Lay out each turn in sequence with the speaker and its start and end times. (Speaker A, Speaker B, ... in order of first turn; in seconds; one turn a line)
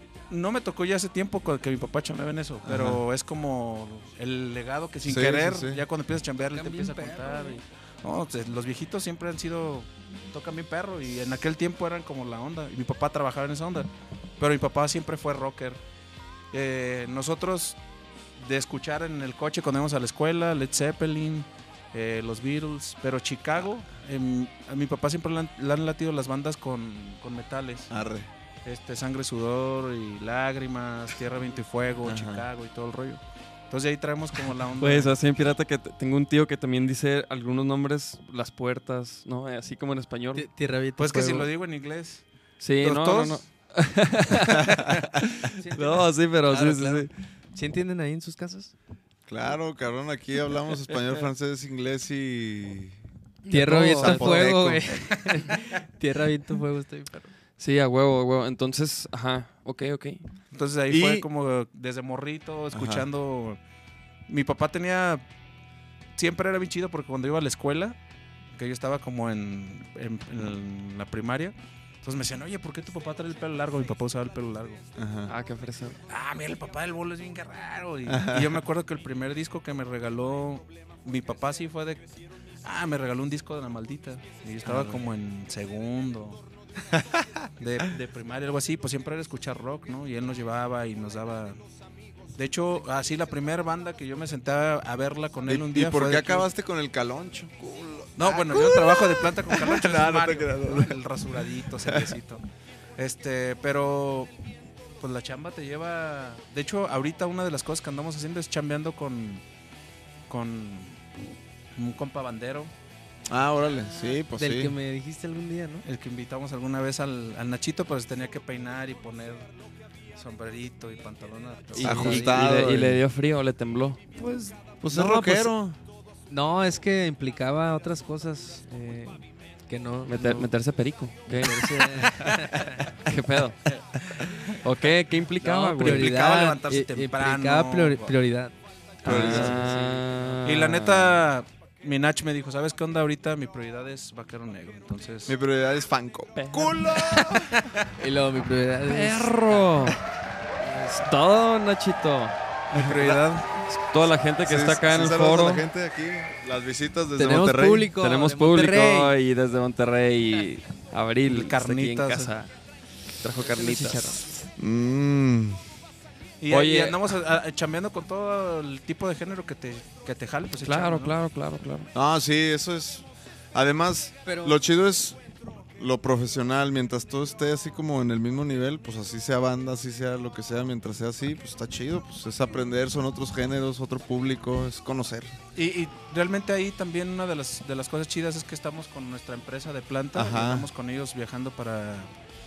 Speaker A: 0.3-15.8
Speaker B: 2.6-3.0
Speaker B: 5.0-5.8
Speaker C: 6.5-7.6
Speaker A: 16.5-17.8
Speaker A: 18.4-27.9
Speaker B: 27.9-28.3
Speaker A: 28.6-35.1
Speaker B: 32.0-32.5
Speaker D: 34.8-40.5
Speaker C: 40.3-41.5
Speaker A: 41.0-42.2
Speaker D: 42.6-47.1
Speaker A: 42.8-43.4
Speaker B: 44.5-45.0
Speaker C: 45.5-48.7
Speaker B: 49.3-53.0
Speaker C: 53.5-57.3
Speaker D: 53.5-54.5
Speaker B: 53.5-55.2
Speaker D: 57.6-60.2
Speaker A: 60.5-63.6
Speaker B: 60.9-61.3
Speaker B: 62.7-63.0
Speaker A: 64.3-65.2
Speaker A: 66.2-68.0
Speaker A: 68.5-74.8
Speaker B: 75.0-75.3
Speaker D: 75.3-76.0
Speaker A: 76.1-82.0
Speaker B: 78.0-78.6
Speaker A: 82.6-86.4
Speaker B: 84.6-85.0
Speaker B: 86.9-87.5
Speaker A: 87.6-91.6
Speaker A: 92.3-96.5
Speaker B: 95.5-101.0
Speaker A: 98.2-102.4
Speaker B: 101.8-102.1
Speaker A: 103.0-104.3
Speaker A: 105.0-109.4
Speaker A: 110.3-111.0
Speaker A: 111.8-112.7
Speaker B: 113.3-114.8
Speaker C: 114.3-115.8
Speaker A: 115.8-119.5
Speaker A: 120.1-122.6
Speaker D: 121.7-124.0
Speaker B: 121.8-123.0
Speaker C: 124.2-125.5
Speaker B: 124.8-125.8
Speaker C: 126.3-130.5
Speaker D: 130.1-132.2
Speaker C: 131.3-132.8
Speaker D: 133.0-133.6
Speaker A: 133.7-134.0
Speaker D: 134.6-136.2
Speaker A: 135.4-138.1
Speaker C: 135.7-140.6
Speaker B: 139.0-139.6
Speaker D: 139.0-141.2
Speaker A: 140.4-145.3
Speaker B: 145.2-147.7
Speaker D: 146.3-146.7
Speaker A: 147.1-147.8
Speaker C: 148.0-149.7
Speaker D: 148.9-150.0
Speaker C: 150.6-151.1
Speaker D: 150.9-152.3
Speaker A: 152.7-153.5
Speaker B: 152.7-153.2
Speaker D: 153.0-155.7
Speaker B: 154.4-157.9
Speaker C: 157.2-159.1
Speaker D: 158.0-162.5
Speaker A: 161.3-162.3
Speaker D: 163.2-164.2
Speaker C: 163.4-164.3
Speaker B: 164.6-165.6
Speaker A: 166.4-171.1
Speaker D: 166.5-167.2
Speaker D: 170.6-171.9
Speaker B: 171.9-175.2
Speaker C: 174.2-174.6
Speaker B: 175.8-185.3
Speaker A: 185.5-192.1
Speaker B: 190.1-190.7